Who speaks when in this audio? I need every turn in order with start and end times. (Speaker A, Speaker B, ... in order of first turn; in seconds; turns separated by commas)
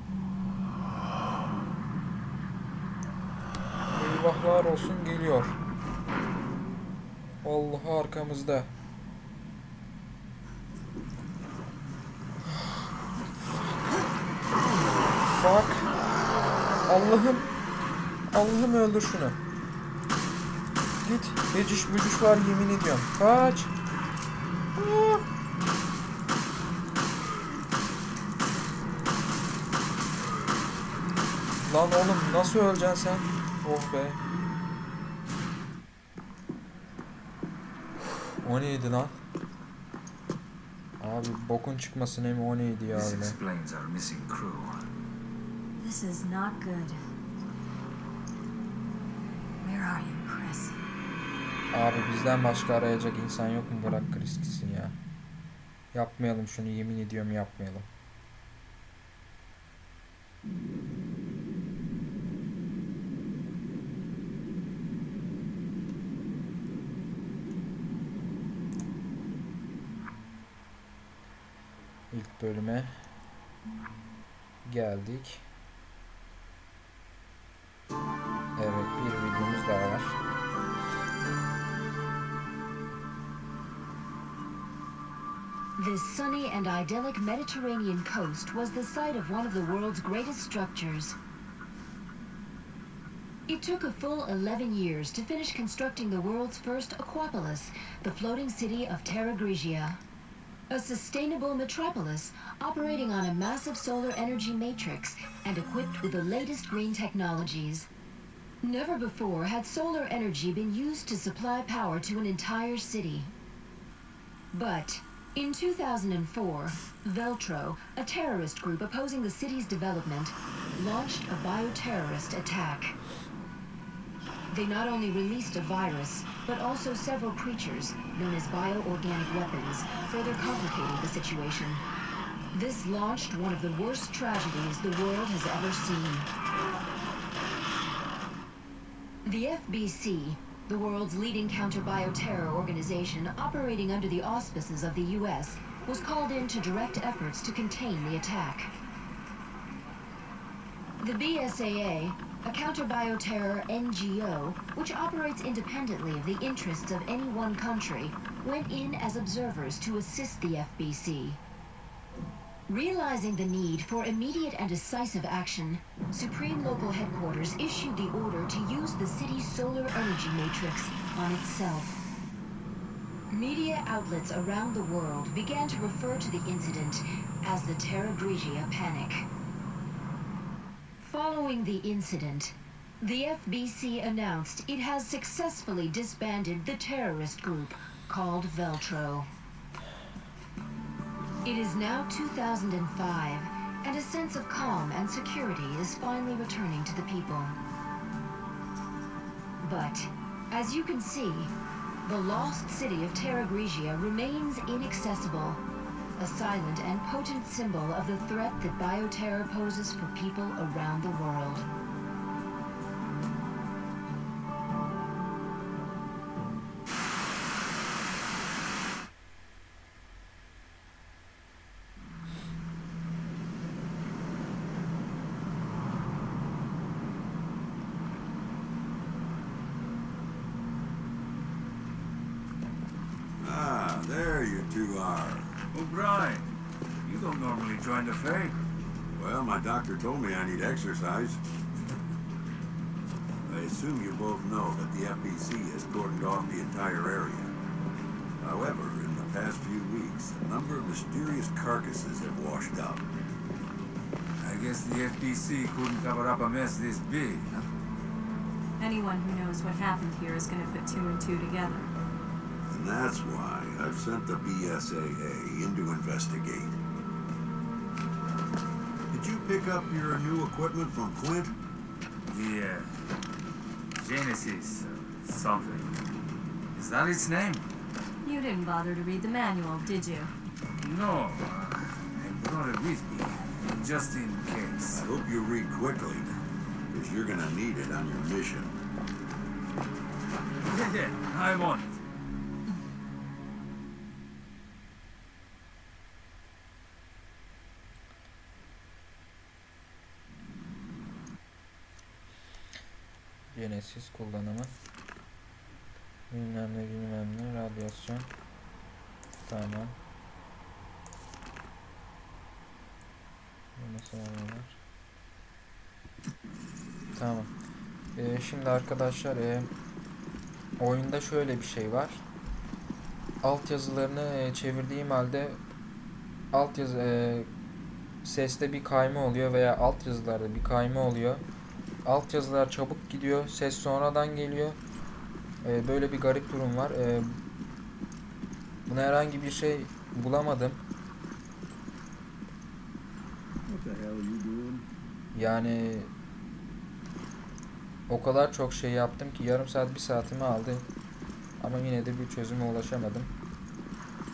Speaker A: 3.9-5.6, Speaker A: 7.4-8.7, Speaker A: 15.3-15.9, Speaker A: 16.9-17.5, Speaker A: 18.3-19.4, Speaker A: 21.0-23.7, Speaker A: 24.8-25.3, Speaker A: 31.6-34.2, Speaker A: 38.4-39.2, Speaker A: 41.0-43.4, Speaker B: 42.9-44.9, Speaker C: 45.8-47.0, Speaker C: 49.6-50.8, Speaker A: 51.7-55.0, Speaker A: 55.9-57.9, Speaker A: 72.1-73.0, Speaker A: 74.7-75.4, Speaker A: 78.6-80.2, Speaker D: 85.8-91.2, Speaker D: 93.5-100.0, Speaker D: 100.7-107.9, Speaker D: 108.6-113.3, Speaker D: 114.5-123.0, Speaker D: 124.5-131.8, Speaker D: 132.5-136.3, Speaker D: 139.3-148.7, Speaker D: 151.0-161.4, Speaker D: 162.7-172.0, Speaker D: 173.3-179.3, Speaker D: 181.0-189.3, Speaker D: 191.4-197.6, Speaker D: 199.6-201.5, Speaker D: 202.1-205.6, Speaker D: 206.2-211.7, Speaker E: 233.4-235.6, Speaker B: 235.7-236.5, Speaker B: 237.1-238.6, Speaker E: 239.2-241.4, Speaker E: 243.5-247.5, Speaker E: 248.4-253.1, Speaker B: 254.4-257.7, Speaker C: 258.8-261.9, Speaker E: 262.7-266.8, Speaker E: 269.1-271.6, Speaker B: 272.3-273.1, Speaker B: 274.0-275.9, Speaker B: 276.7-277.7, Speaker C: 278.2-280.3, Speaker B: 280.8-285.1, Speaker E: 284.9-286.3, Speaker E: 286.9-288.8, Speaker B: 290.7-291.9, Speaker A: 303.5-304.7, Speaker A: 306.3-308.3, Speaker A: 309.4-310.0, Speaker A: 313.8-314.8, Speaker A: 317.1-317.5, Speaker A: 318.2-319.7, Speaker A: 320.8-322.2, Speaker A: 323.4-325.6, Speaker A: 326.5-327.5, Speaker A: 328.2-331.4, Speaker A: 332.1-334.8, Speaker A: 335.6-337.4, Speaker A: 338.9-340.8, Speaker E: 343.7-344.9, Speaker A: 345.4-346.1, Speaker A: 348.1-350.9, Speaker A: 351.6-353.3